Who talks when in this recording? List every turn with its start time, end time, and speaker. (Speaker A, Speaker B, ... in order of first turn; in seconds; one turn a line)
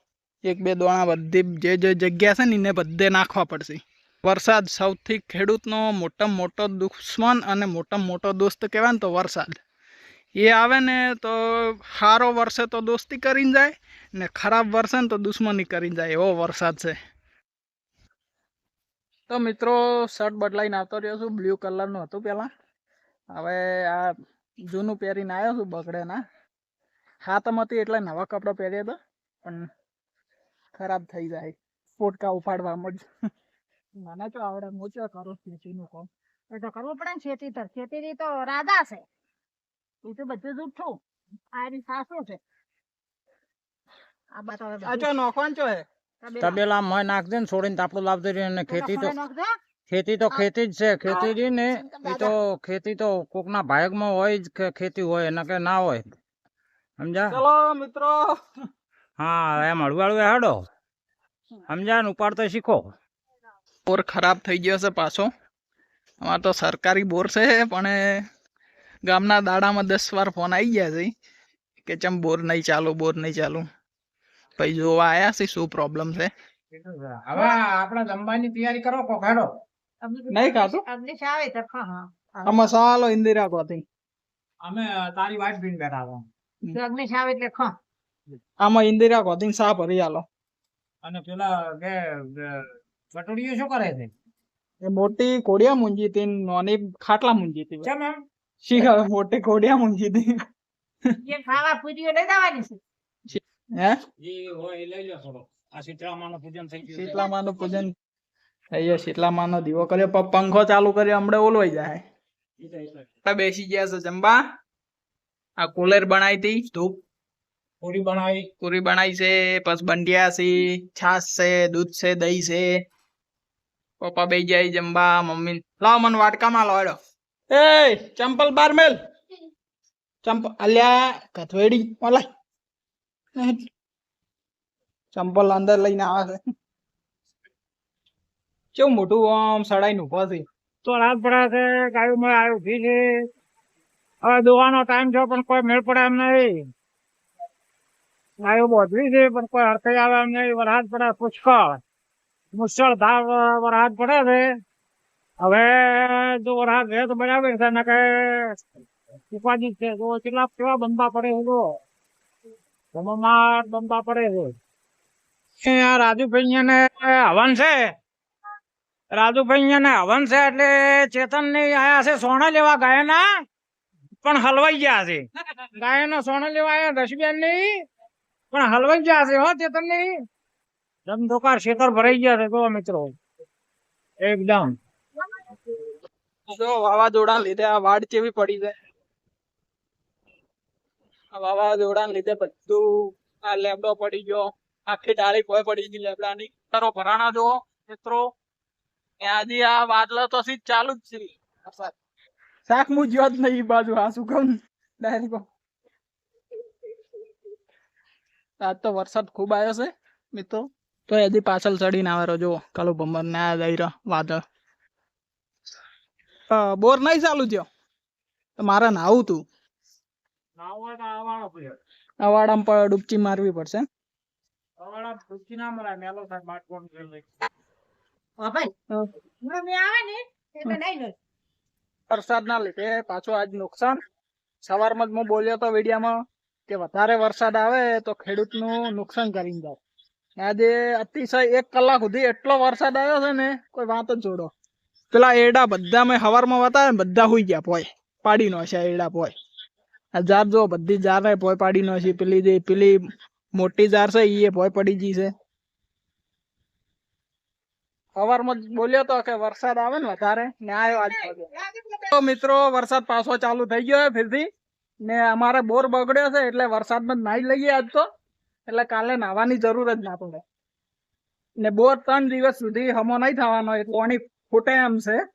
Speaker A: 0.4-9.5
Speaker A: 10.4-16.9
Speaker A: 19.3-22.5
Speaker A: 23.3-24.1
Speaker A: 24.7-26.2
Speaker A: 27.2-29.6
Speaker A: 30.7-33.0
Speaker A: 34.0-36.1
Speaker B: 36.5-39.0
Speaker B: 40.0-41.0
Speaker B: 41.5-42.4
Speaker B: 44.3-45.1
Speaker A: 44.8-45.8
Speaker B: 46.2-46.6
Speaker C: 46.4-49.1
Speaker B: 48.7-49.5
Speaker C: 49.9-56.1
Speaker B: 51.1-52.3
Speaker C: 57.0-57.4
Speaker A: 57.3-58.2
Speaker C: 59.2-60.6
Speaker C: 61.7-62.9
Speaker A: 63.9-65.3
Speaker A: 66.2-68.0
Speaker A: 69.0-71.1
Speaker A: 71.8-73.6
Speaker A: 74.6-76.3
Speaker C: 76.7-79.5
Speaker B: 80.0-82.6
Speaker A: 80.3-80.8
Speaker A: 82.5-83.8
Speaker C: 84.6-86.2
Speaker B: 86.7-87.7
Speaker A: 88.6-90.2
Speaker C: 91.0-94.1
Speaker A: 94.8-97.9
Speaker C: 97.8-98.2
Speaker A: 98.6-100.2
Speaker B: 101.2-102.8
Speaker A: 103.3-104.0
Speaker C: 104.2-107.2
Speaker A: 106.9-107.9
Speaker B: 107.1-107.8
Speaker A: 108.7-112.0
Speaker C: 112.6-113.0
Speaker A: 113.2-114.4
Speaker A: 115.6-117.0
Speaker C: 117.8-118.5
Speaker A: 118.6-122.7
Speaker A: 124.0-126.9
Speaker A: 127.5-129.0
Speaker A: 130.2-132.2
Speaker A: 135.1-136.3
Speaker A: 138.7-140.4
Speaker C: 140.8-143.0
Speaker C: 144.2-146.6
Speaker C: 148.4-151.8
Speaker C: 152.5-154.5
Speaker C: 155.4-158.7
Speaker C: 159.3-161.7
Speaker C: 162.9-164.5
Speaker C: 165.6-167.9
Speaker C: 169.1-173.3
Speaker C: 174.2-177.8
Speaker C: 178.5-180.1
Speaker C: 181.1-183.1
Speaker C: 184.2-184.7
Speaker A: 186.5-188.7
Speaker A: 191.3-198.2
Speaker A: 199.2-201.9
Speaker A: 202.7-205.4
Speaker A: 208.6-214.4
Speaker A: 216.5-217.6
Speaker A: 218.6-219.4
Speaker C: 220.6-221.8
Speaker A: 222.2-223.8
Speaker C: 224.8-227.3
Speaker B: 228.4-228.7
Speaker B: 229.4-231.2
Speaker A: 232.1-234.0
Speaker A: 234.6-236.2
Speaker A: 236.7-239.8
Speaker A: 240.4-244.5
Speaker A: 245.1-249.3
Speaker A: 250.1-253.0
Speaker A: 253.5-255.3
Speaker A: 258.1-261.5
Speaker B: 261.0-262.1
Speaker A: 262.1-264.4
Speaker A: 265.1-268.0
Speaker A: 268.7-270.4
Speaker A: 271.6-275.2